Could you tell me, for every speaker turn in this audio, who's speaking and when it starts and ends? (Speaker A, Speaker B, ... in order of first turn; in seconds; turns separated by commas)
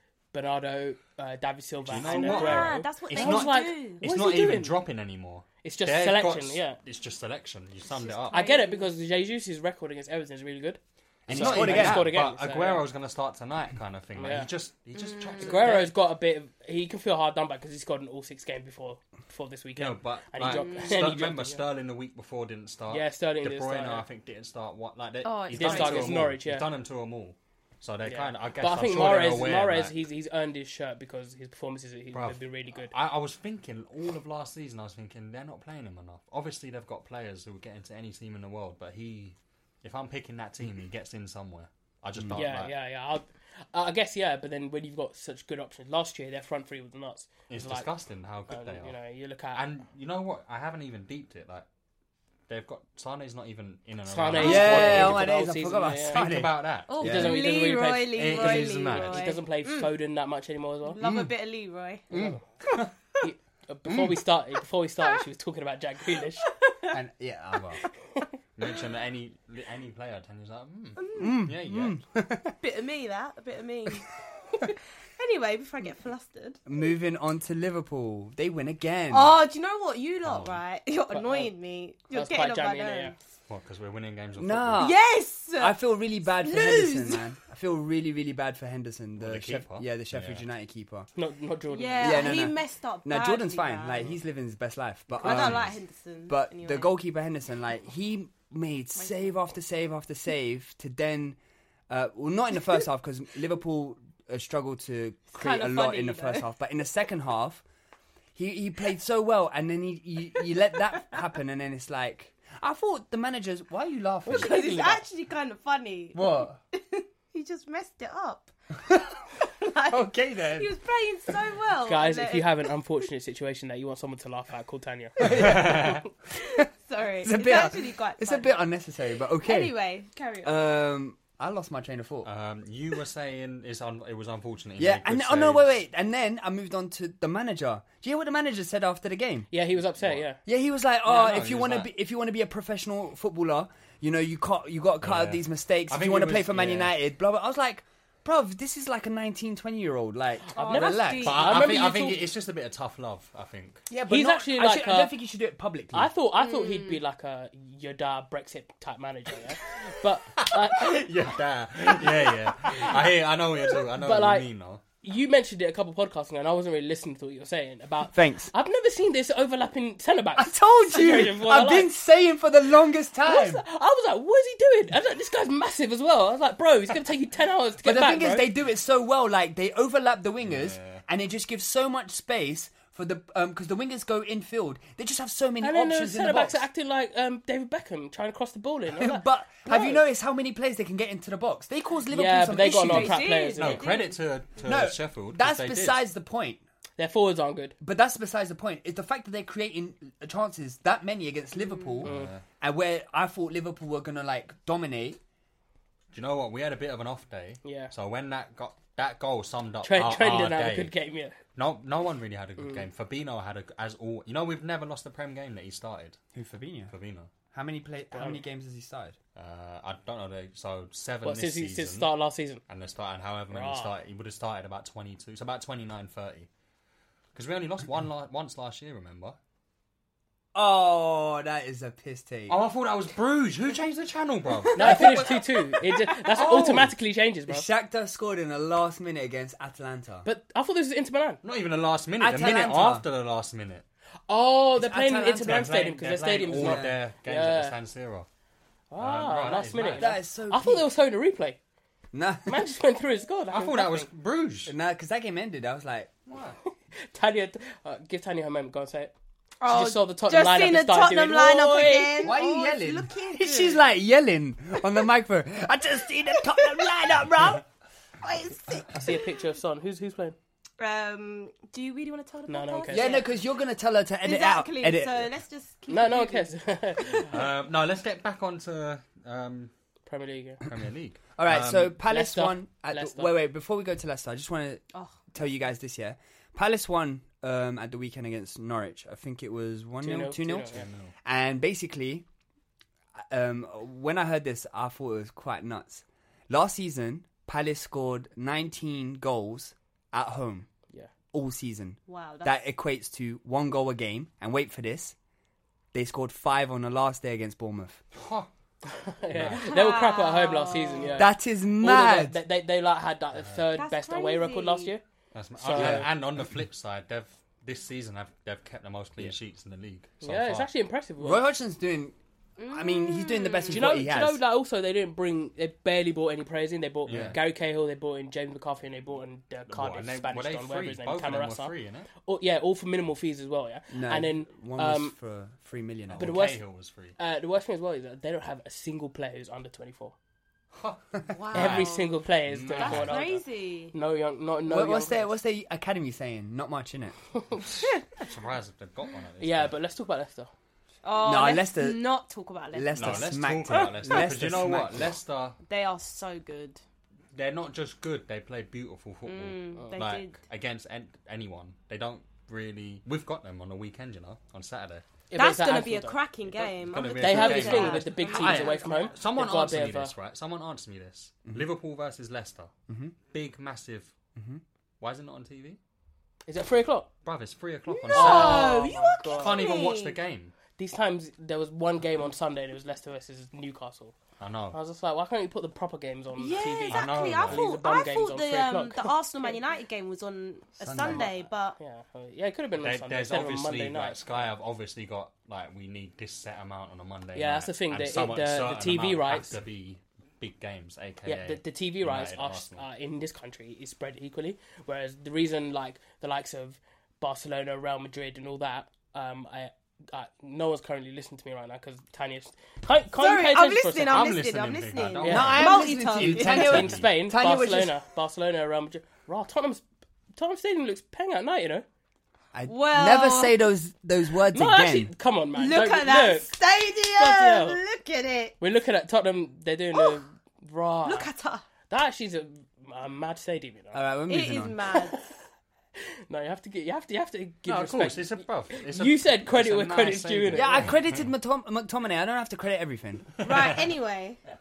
Speaker A: 0.3-4.8, Speaker B: 1.9-8.4, Speaker C: 2.0-4.0, Speaker A: 5.6-6.8, Speaker C: 8.0-8.9, Speaker A: 8.3-12.8, Speaker D: 11.3-12.1, Speaker B: 11.3-15.8, Speaker A: 14.2-14.5, Speaker C: 14.9-15.8, Speaker A: 15.4-21.6, Speaker B: 19.7-30.0, Speaker C: 20.5-21.0, Speaker A: 22.9-24.0, Speaker C: 25.2-26.3, Speaker A: 25.5-26.7, Speaker A: 28.0-32.9, Speaker B: 32.1-42.7, Speaker A: 42.3-47.9, Speaker B: 47.5-49.0, Speaker A: 48.5-49.6, Speaker B: 49.5-51.6, Speaker B: 52.5-55.3, Speaker A: 54.1-56.2, Speaker D: 54.4-57.4, Speaker B: 56.1-57.4, Speaker C: 56.9-59.9, Speaker A: 57.0-61.0, Speaker B: 58.1-59.2, Speaker C: 60.9-62.1, Speaker D: 61.0-61.3, Speaker D: 62.1-62.9, Speaker A: 62.1-62.4, Speaker A: 63.2-66.5, Speaker D: 63.9-64.2, Speaker C: 66.6-67.0, Speaker D: 66.9-67.8, Speaker B: 67.5-67.8, Speaker B: 68.5-72.0, Speaker C: 71.0-71.4, Speaker D: 71.2-72.5, Speaker C: 72.6-76.6, Speaker D: 76.7-79.3, Speaker C: 79.1-83.2, Speaker B: 80.2-80.6, Speaker A: 81.1-81.5, Speaker A: 82.1-83.1, Speaker B: 83.5-84.9, Speaker D: 84.4-91.1, Speaker C: 84.8-87.2, Speaker B: 89.2-90.4, Speaker A: 91.2-92.3, Speaker C: 91.7-94.1, Speaker D: 92.0-95.7, Speaker C: 95.2-97.0, Speaker B: 95.2-95.7, Speaker D: 96.3-101.4, Speaker C: 99.0-99.4, Speaker D: 101.9-107.6, Speaker C: 105.3-106.5, Speaker D: 108.3-114.7, Speaker A: 114.2-115.0, Speaker C: 114.3-122.7, Speaker D: 116.1-116.6, Speaker D: 119.9-120.7, Speaker A: 121.8-125.8, Speaker D: 125.2-126.1, Speaker B: 125.4-125.9, Speaker C: 126.3-128.7, Speaker D: 127.2-129.7, Speaker C: 129.4-130.6, Speaker D: 130.4-132.3, Speaker B: 132.2-135.8, Speaker D: 134.8-139.5, Speaker A: 139.5-140.4, Speaker B: 140.0-140.2, Speaker D: 140.4-151.4, Speaker B: 141.1-141.9, Speaker B: 145.0-146.9, Speaker A: 150.5-152.2, Speaker C: 150.5-151.8, Speaker B: 151.2-153.8, Speaker D: 153.9-156.1, Speaker A: 154.1-155.1, Speaker A: 155.9-161.0, Speaker C: 156.4-157.0, Speaker B: 160.3-164.8, Speaker A: 164.0-164.5, Speaker A: 165.0-171.9, Speaker D: 168.1-168.5, Speaker D: 170.3-173.6, Speaker A: 173.2-178.5, Speaker D: 177.8-186.6, Speaker B: 180.4-181.0, Speaker A: 185.6-190.0, Speaker D: 188.9-193.3, Speaker A: 192.1-193.8, Speaker C: 192.8-194.2, Speaker B: 193.6-196.0, Speaker D: 194.6-196.6, Speaker A: 197.0-197.7, Speaker D: 197.8-205.2, Speaker B: 202.0-202.4, Speaker B: 206.1-210.9, Speaker A: 207.6-207.9, Speaker A: 209.8-211.4, Speaker B: 211.5-216.2, Speaker A: 212.6-212.8, Speaker D: 216.3-216.9, Speaker B: 216.9-217.3, Speaker D: 217.5-219.2, Speaker A: 218.1-218.4, Speaker B: 219.3-222.1, Speaker A: 221.2-222.6, Speaker B: 222.7-226.5, Speaker A: 223.5-223.9, Speaker B: 227.3-229.4, Speaker D: 230.5-232.6, Speaker B: 232.5-235.3, Speaker A: 234.7-237.7, Speaker D: 234.8-235.4, Speaker B: 236.3-236.9, Speaker D: 237.5-240.3, Speaker A: 240.2-241.4, Speaker B: 241.4-243.8, Speaker D: 242.2-243.0, Speaker A: 244.3-247.7, Speaker D: 244.8-245.8, Speaker B: 245.4-248.3, Speaker D: 246.6-247.0, Speaker A: 248.9-251.6, Speaker B: 249.0-250.1, Speaker D: 249.9-250.9, Speaker D: 252.1-252.6, Speaker A: 252.5-254.1, Speaker B: 253.5-254.7, Speaker D: 254.7-256.1, Speaker B: 256.3-256.6, Speaker A: 256.6-259.1, Speaker C: 259.6-263.8, Speaker A: 259.6-262.4, Speaker D: 262.2-267.6, Speaker C: 266.6-266.9, Speaker C: 268.2-269.2, Speaker A: 268.9-270.4, Speaker C: 270.8-273.3, Speaker A: 272.5-273.2, Speaker D: 272.9-275.3, Speaker C: 274.2-277.2, Speaker A: 275.9-277.3, Speaker B: 277.3-279.7, Speaker A: 280.1-280.6, Speaker B: 280.6-281.9, Speaker D: 281.4-292.2, Speaker A: 282.1-283.3, Speaker C: 284.9-285.2, Speaker A: 290.0-290.9, Speaker B: 290.7-291.1, Speaker D: 293.1-300.7, Speaker D: 301.3-305.1, Speaker C: 302.1-302.6, Speaker D: 305.9-308.0, Speaker B: 308.1-308.5, Speaker A: 308.9-315.0, Speaker B: 309.3-309.8, Speaker C: 309.6-311.2, Speaker D: 311.1-312.4, Speaker B: 313.4-313.6, Speaker C: 313.7-314.9, Speaker B: 315.3-320.7, Speaker A: 315.6-316.1, Speaker D: 315.7-316.1, Speaker A: 320.2-321.4, Speaker D: 321.2-322.1, Speaker C: 322.6-323.9, Speaker D: 322.7-324.4, Speaker A: 323.7-331.7, Speaker B: 327.1-327.4, Speaker D: 327.1-327.4, Speaker B: 329.7-332.1, Speaker A: 332.2-335.1, Speaker D: 333.9-336.4, Speaker B: 336.1-337.1, Speaker A: 336.2-336.6, Speaker A: 337.2-340.1, Speaker B: 340.7-341.9, Speaker C: 341.3-342.2, Speaker A: 341.5-343.4, Speaker B: 342.4-343.3, Speaker C: 342.7-343.9, Speaker A: 343.9-345.3, Speaker D: 344.7-347.1, Speaker B: 348.2-349.8, Speaker A: 349.4-350.5, Speaker C: 351.0-353.3, Speaker D: 351.2-352.1, Speaker D: 352.7-355.1, Speaker B: 352.9-355.6, Speaker C: 355.7-356.8, Speaker B: 357.3-365.0, Speaker C: 359.2-360.4, Speaker A: 365.3-370.1, Speaker C: 365.3-369.2, Speaker B: 366.9-372.7, Speaker D: 372.9-373.1, Speaker B: 373.3-374.1, Speaker D: 374.4-374.6, Speaker B: 375.0-375.8, Speaker A: 376.5-377.1, Speaker B: 377.2-380.5, Speaker C: 377.9-380.2, Speaker A: 378.1-379.6, Speaker A: 380.8-384.1, Speaker B: 384.4-384.8, Speaker A: 384.7-389.6, Speaker C: 386.4-391.8, Speaker B: 386.9-387.6, Speaker D: 390.8-391.3, Speaker A: 391.1-394.5, Speaker B: 392.8-402.8, Speaker A: 397.3-399.6, Speaker A: 401.2-414.3, Speaker C: 413.1-416.8, Speaker B: 414.1-417.0, Speaker A: 415.2-415.6, Speaker D: 415.2-417.9, Speaker A: 416.2-421.8, Speaker D: 422.5-425.1, Speaker C: 422.6-423.6, Speaker A: 424.5-426.6, Speaker C: 425.5-428.6, Speaker A: 427.1-427.8, Speaker A: 428.6-431.3, Speaker C: 429.9-430.2, Speaker C: 431.0-431.6, Speaker A: 431.9-434.0, Speaker D: 433.9-434.8, Speaker C: 434.3-435.2, Speaker A: 436.3-440.9, Speaker B: 437.6-441.1, Speaker D: 440.5-443.3, Speaker C: 443.4-444.4